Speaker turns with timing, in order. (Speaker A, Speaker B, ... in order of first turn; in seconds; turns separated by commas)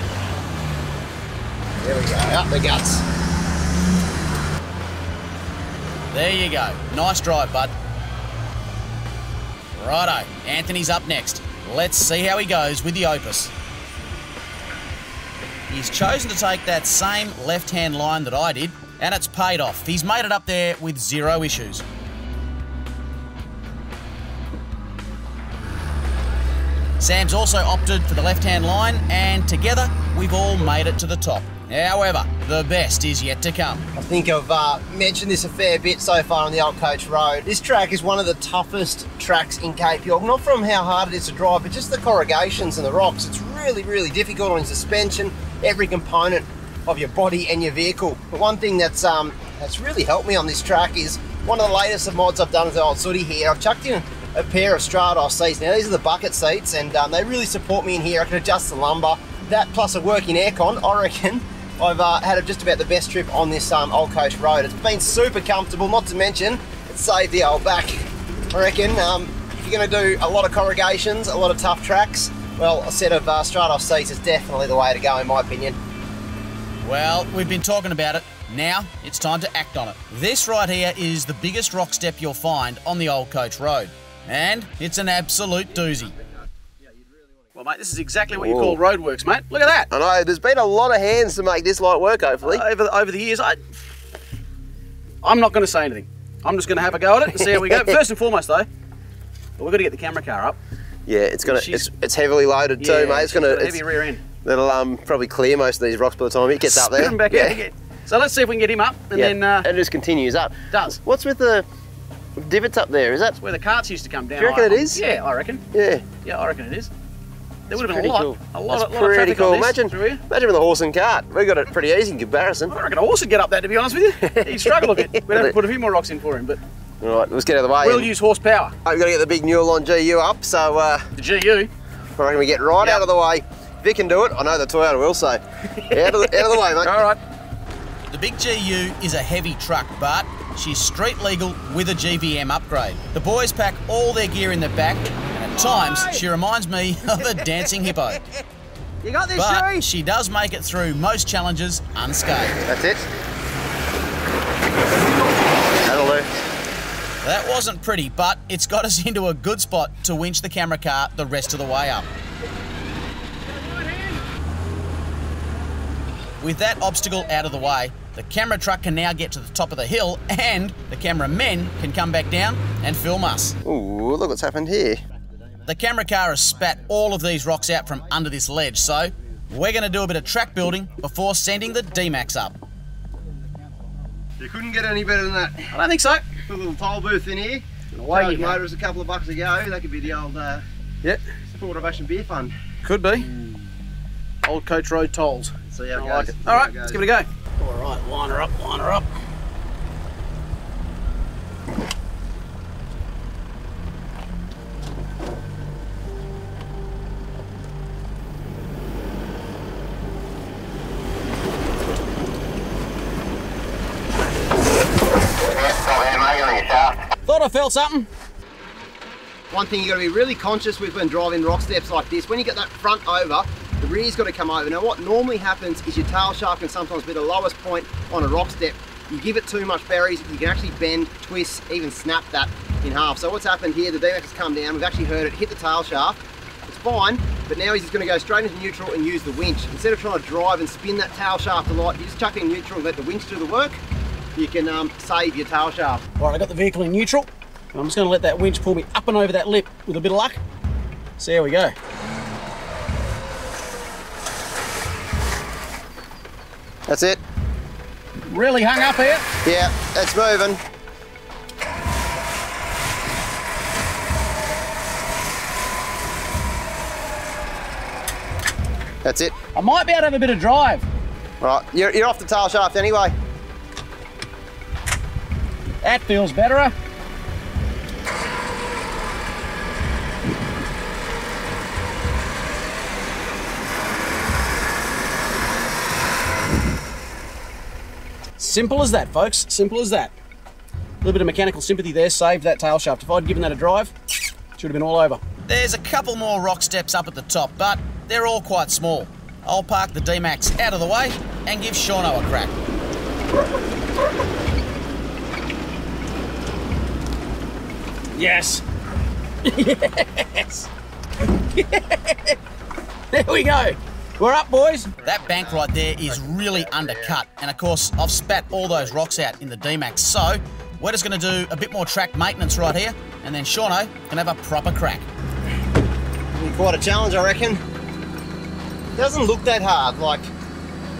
Speaker A: 1.8-3.0, Speaker B: 6.1-7.7, Speaker B: 9.8-13.5, Speaker B: 15.7-21.8, Speaker B: 27.0-33.8, Speaker A: 33.9-75.8, Speaker B: 76.8-86.1, Speaker C: 87.5-89.9, Speaker A: 88.3-88.8, Speaker A: 89.9-92.6, Speaker C: 92.4-93.6, Speaker C: 95.2-98.7, Speaker A: 97.4-98.0, Speaker C: 99.6-100.6, Speaker A: 101.1-103.8, Speaker C: 101.4-101.9, Speaker C: 102.8-104.2, Speaker A: 104.4-107.6, Speaker C: 106.7-109.7, Speaker A: 109.1-111.6, Speaker C: 110.7-111.0, Speaker A: 112.4-113.4, Speaker C: 113.4-115.6, Speaker A: 114.3-115.0, Speaker A: 115.7-116.1, Speaker C: 116.2-116.9, Speaker C: 117.7-120.2, Speaker A: 117.7-122.8, Speaker C: 122.7-126.6, Speaker A: 124.2-125.5, Speaker A: 127.0-128.1, Speaker C: 127.8-128.7, Speaker A: 128.8-131.1, Speaker C: 131.2-131.7, Speaker A: 132.2-137.1, Speaker C: 135.9-137.2, Speaker B: 138.1-148.2, Speaker C: 145.5-146.2, Speaker C: 149.0-149.8, Speaker B: 149.3-152.6, Speaker A: 152.6-153.0, Speaker A: 155.7-156.4, Speaker B: 157.2-162.1, Speaker B: 166.4-173.6, Speaker A: 173.6-175.0, Speaker B: 175.7-182.6, Speaker A: 184.4-185.8, Speaker C: 185.7-186.3, Speaker A: 186.5-190.6, Speaker C: 187.9-188.6, Speaker A: 191.5-192.5, Speaker C: 192.8-193.3, Speaker C: 194.4-199.1, Speaker A: 195.7-197.0, Speaker A: 215.5-217.0, Speaker C: 217.3-218.1, Speaker A: 219.5-243.8, Speaker A: 244.3-246.0, Speaker C: 246.1-250.4, Speaker C: 251.2-251.7, Speaker A: 256.9-257.2, Speaker C: 258.3-259.3, Speaker A: 259.4-260.6, Speaker A: 269.0-269.4, Speaker C: 269.5-270.8, Speaker A: 271.4-273.1, Speaker C: 275.8-276.7, Speaker C: 288.4-290.1, Speaker C: 291.0-293.9, Speaker C: 294.6-295.2, Speaker B: 295.4-302.5, Speaker C: 308.1-308.6, Speaker C: 309.4-310.7, Speaker C: 311.3-312.4, Speaker C: 313.1-314.9, Speaker A: 315.0-317.2, Speaker B: 315.0-325.1, Speaker A: 326.3-327.6, Speaker A: 328.9-330.3